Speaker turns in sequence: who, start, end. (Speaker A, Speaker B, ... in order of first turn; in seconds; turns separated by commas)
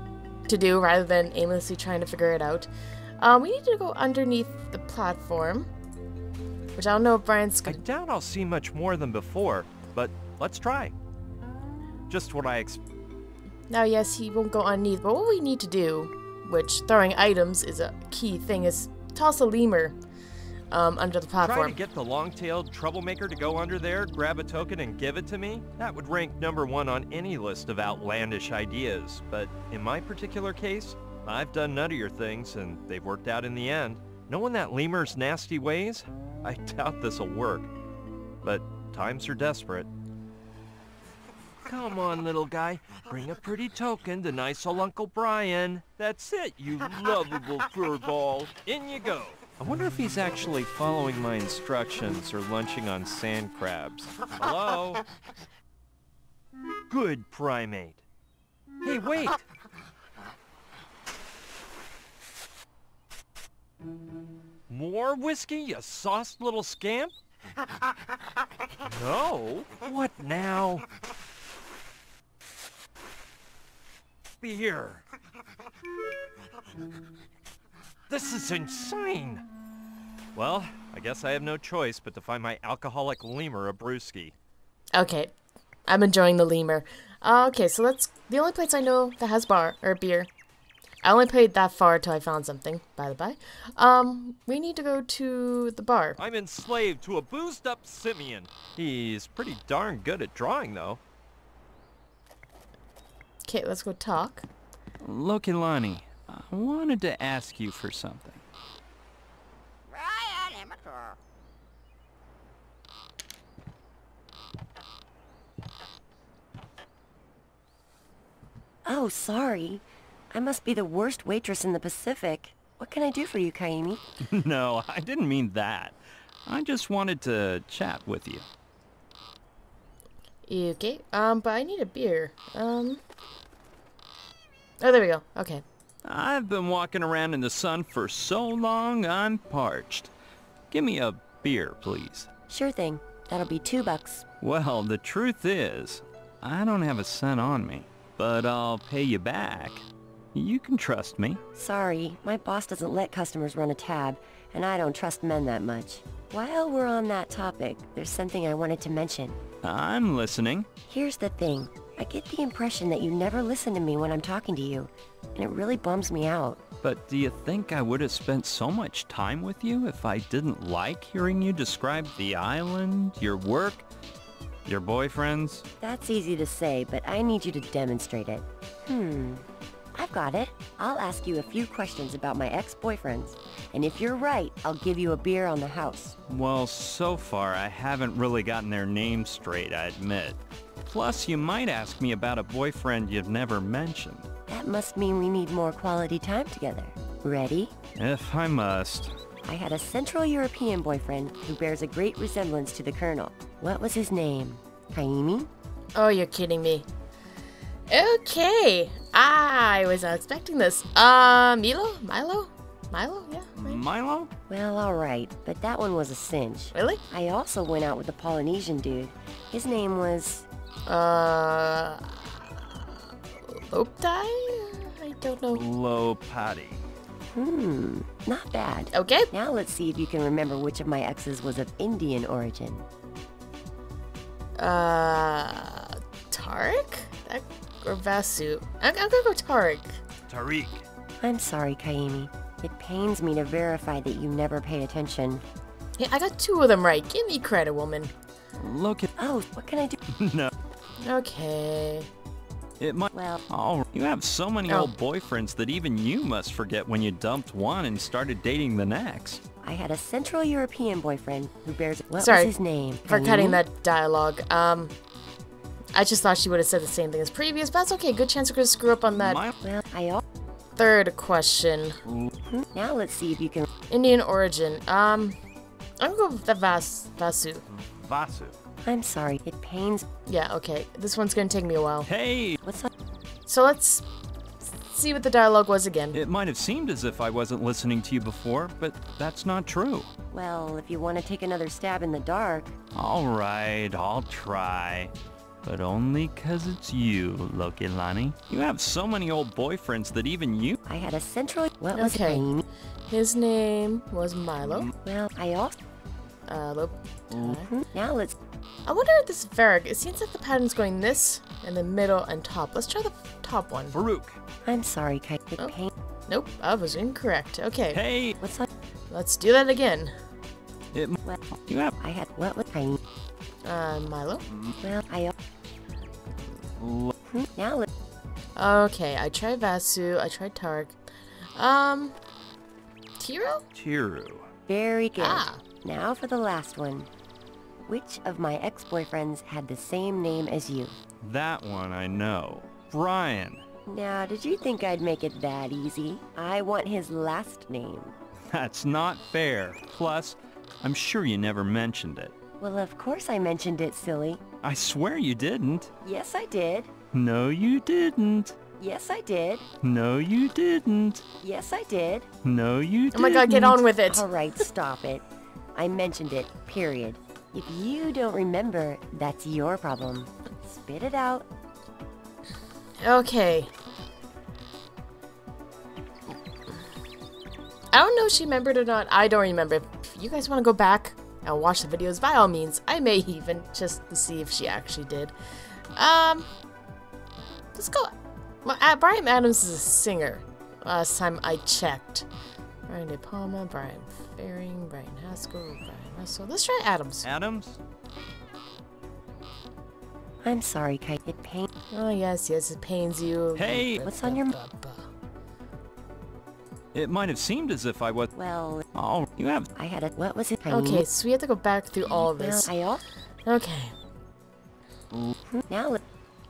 Speaker A: 0.5-2.7, Speaker A: 3.2-5.7, Speaker A: 6.8-7.8, Speaker B: 7.7-10.9, Speaker B: 12.1-12.8, Speaker A: 13.7-20.0, Speaker A: 20.7-21.8, Speaker B: 21.4-37.7, Speaker B: 38.4-39.9, Speaker B: 41.6-55.0, Speaker B: 56.9-58.0, Speaker B: 58.8-59.4, Speaker B: 64.7-67.2, Speaker B: 68.9-70.9, Speaker B: 74.4-75.0, Speaker B: 78.1-79.4, Speaker B: 80.3-84.4, Speaker A: 85.0-85.3, Speaker A: 85.9-90.3, Speaker A: 91.0-96.2, Speaker B: 96.2-101.0, Speaker A: 103.5-104.5, Speaker C: 105.0-108.4, Speaker D: 118.8-124.0, Speaker C: 124.2-128.5, Speaker A: 130.5-133.0, Speaker A: 134.8-135.6, Speaker C: 136.0-140.1, Speaker C: 140.7-142.3, Speaker D: 142.5-144.3, Speaker C: 144.4-151.4, Speaker D: 151.6-159.4, Speaker C: 159.6-160.7, Speaker D: 160.9-166.6, Speaker C: 166.8-173.8, Speaker C: 174.7-175.6, Speaker D: 175.8-186.2, Speaker C: 186.3-194.3, Speaker D: 194.5-197.7, Speaker C: 198.0-199.2, Speaker D: 199.4-205.5, Speaker A: 205.9-206.9, Speaker A: 207.9-213.8, Speaker C: 213.6-214.3, Speaker D: 214.5-220.5, Speaker A: 216.7-217.0, Speaker A: 220.9-225.6, Speaker C: 225.5-226.8, Speaker D: 227.3-232.8, Speaker A: 228.9-229.3, Speaker A: 234.6-240.0, Speaker B: 240.3-240.8, Speaker D: 241.2-245.4, Speaker A: 246.0-248.1, Speaker C: 248.6-249.1, Speaker D: 249.2-250.0, Speaker C: 250.2-250.5, Speaker A: 251.0-252.1, Speaker C: 252.8-259.4, Speaker D: 253.1-253.4, Speaker A: 254.7-254.9, Speaker D: 259.6-263.6, Speaker A: 262.2-262.5, Speaker A: 263.1-264.9, Speaker A: 265.9-269.4, Speaker C: 269.2-269.6, Speaker D: 269.6-270.2, Speaker A: 270.8-272.0, Speaker C: 272.1-272.3, Speaker D: 272.5-273.7, Speaker A: 273.9-275.4, Speaker A: 276.0-277.6, Speaker C: 277.7-278.6, Speaker D: 278.8-280.1, Speaker A: 280.3-282.1, Speaker C: 282.1-282.6, Speaker D: 282.6-282.9, Speaker A: 283.5-284.1, Speaker A: 284.6-286.2, Speaker C: 286.1-290.1, Speaker D: 290.3-292.8, Speaker C: 292.9-295.1, Speaker C: 295.6-300.8, Speaker D: 300.9-302.6, Speaker A: 301.9-302.5, Speaker A: 303.1-304.9, Speaker D: 305.0-305.8, Speaker A: 306.5-307.7, Speaker D: 307.4-308.4, Speaker A: 308.9-314.0, Speaker C: 313.9-314.4, Speaker D: 314.6-315.9, Speaker A: 316.3-318.0, Speaker C: 317.9-318.4, Speaker D: 318.4-318.7, Speaker A: 319.1-320.1, Speaker C: 320.9-322.0, Speaker D: 322.0-323.0, Speaker A: 323.6-324.4, Speaker C: 324.5-324.8, Speaker D: 324.8-325.3, Speaker C: 326.8-327.1, Speaker D: 327.3-327.9, Speaker A: 328.6-331.0, Speaker A: 331.6-332.2, Speaker A: 333.2-333.6, Speaker C: 333.7-334.5, Speaker D: 334.7-337.1, Speaker A: 335.2-335.6, Speaker D: 337.9-341.0, Speaker C: 341.2-343.6, Speaker D: 343.9-348.1, Speaker C: 348.5-352.3, Speaker D: 352.6-354.4, Speaker C: 354.6-355.9, Speaker D: 356.0-356.9, Speaker C: 357.1-358.6, Speaker D: 358.8-359.7, Speaker C: 359.8-361.2, Speaker D: 361.4-362.3, Speaker C: 362.4-363.8, Speaker A: 363.1-364.2, Speaker D: 364.1-365.2, Speaker D: 365.8-371.5, Speaker A: 373.0-373.7, Speaker A: 377.9-385.3, Speaker A: 386.0-386.5, Speaker A: 387.7-392.3, Speaker A: 392.9-397.3, Speaker C: 397.2-397.8, Speaker D: 400.4-401.7, Speaker A: 401.9-405.1, Speaker C: 403.6-404.0, Speaker D: 404.0-404.6, Speaker C: 406.9-408.3, Speaker D: 408.4-408.9, Speaker C: 408.9-409.7, Speaker D: 409.8-411.1, Speaker A: 410.7-412.7, Speaker D: 412.1-413.0, Speaker A: 413.5-413.9, Speaker D: 415.5-416.0